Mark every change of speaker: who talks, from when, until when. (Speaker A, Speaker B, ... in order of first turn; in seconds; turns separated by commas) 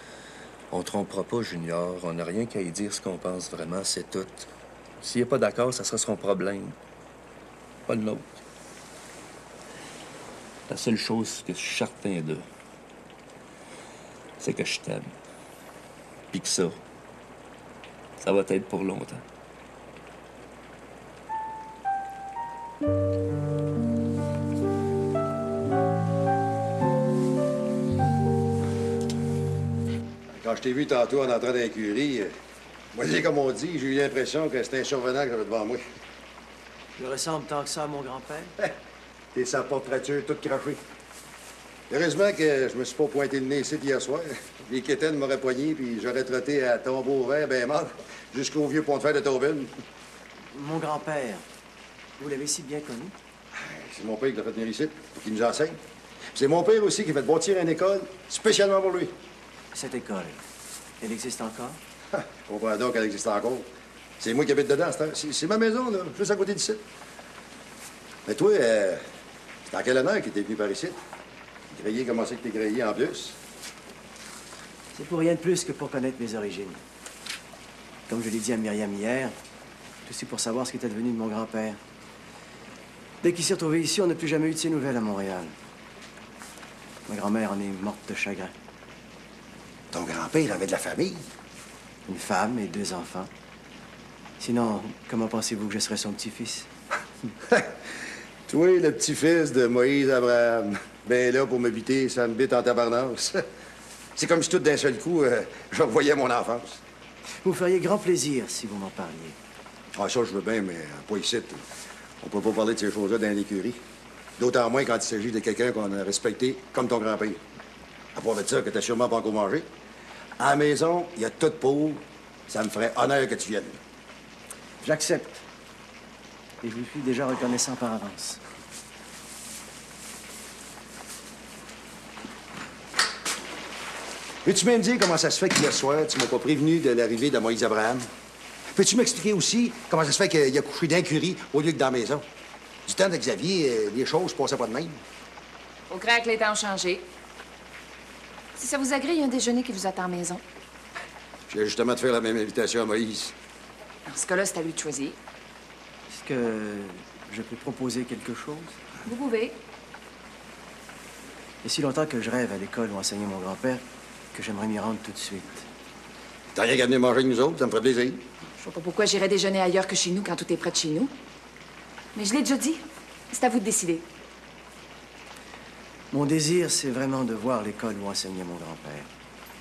Speaker A: 0.7-4.5, Speaker A: 5.0-6.8, Speaker A: 7.9-8.2, Speaker A: 10.7-12.4, Speaker A: 14.4-15.1, Speaker A: 16.3-16.8, Speaker A: 18.2-19.2, Speaker B: 30.3-32.3, Speaker B: 32.9-35.8, Speaker C: 37.0-38.5, Speaker B: 39.3-40.8, Speaker B: 41.9-49.7, Speaker C: 50.5-51.4, Speaker C: 52.2-53.1, Speaker B: 53.5-55.8, Speaker B: 56.3-59.1, Speaker C: 59.7-60.4, Speaker C: 61.0-61.8, Speaker B: 62.1-63.7, Speaker B: 64.2-66.8, Speaker B: 68.3-69.0, Speaker B: 69.7-71.0, Speaker B: 71.7-73.4, Speaker C: 74.9-76.8, Speaker C: 78.1-79.3, Speaker C: 80.0-81.8, Speaker C: 83.2-85.5, Speaker C: 87.1-88.5, Speaker B: 89.9-91.2, Speaker C: 92.1-93.3, Speaker C: 94.4-96.7, Speaker B: 98.5-103.4, Speaker B: 104.2-106.8, Speaker C: 107.4-109.3, Speaker B: 109.9-111.6, Speaker B: 112.2-113.8, Speaker B: 114.4-117.4, Speaker B: 118.1-119.7, Speaker B: 120.4-123.8, Speaker C: 124.8-125.4, Speaker C: 126.6-128.4, Speaker B: 134.4-138.1, Speaker B: 138.7-142.2, Speaker B: 142.9-145.0, Speaker D: 145.9-147.1, Speaker D: 148.6-150.4, Speaker B: 151.5-153.3, Speaker D: 154.1-155.2, Speaker C: 156.1-158.8, Speaker D: 159.0-159.6, Speaker C: 161.6-165.7, Speaker B: 166.5-168.2, Speaker D: 168.6-171.1, Speaker D: 172.1-174.1, Speaker C: 176.1-179.1